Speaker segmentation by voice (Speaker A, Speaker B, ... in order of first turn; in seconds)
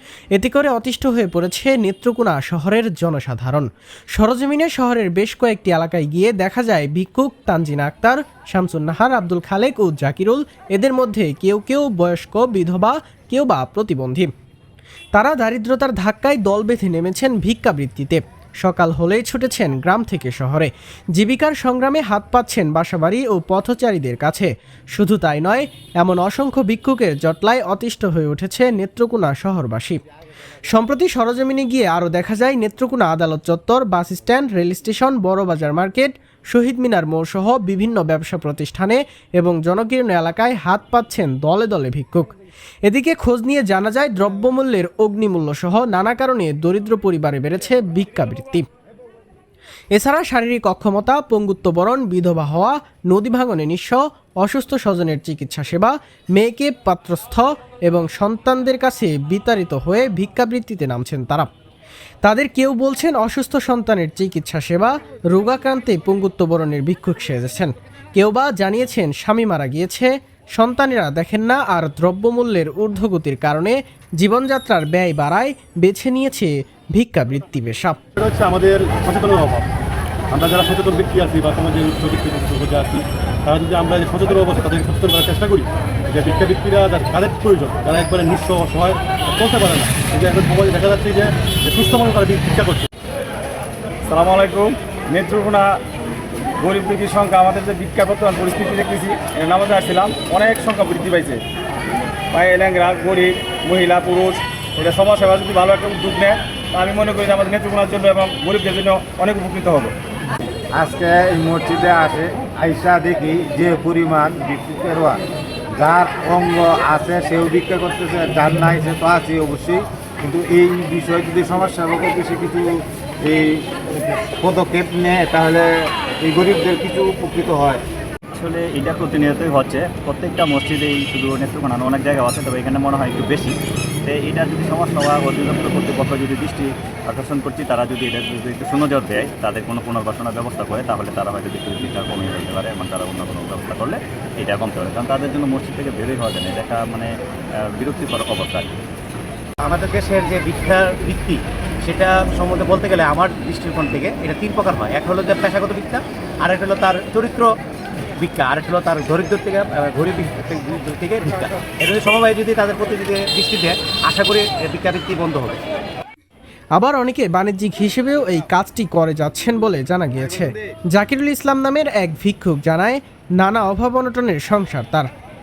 Speaker A: 0.3-14.3, 15.1-30.0, 30.7-42.3, 42.9-48.6, 49.9-61.5, 62.2-78.0, 166.8-175.1
Speaker B: 78.2-79.7, 80.3-92.9
Speaker C: 94.1-95.8, 96.6-101.4, 102.3-109.9
Speaker D: 110.7-115.2, 115.7-127.8
Speaker E: 128.3-133.5, 134.0-147.1, 147.7-148.8
Speaker F: 149.7-157.4, 158.2-165.6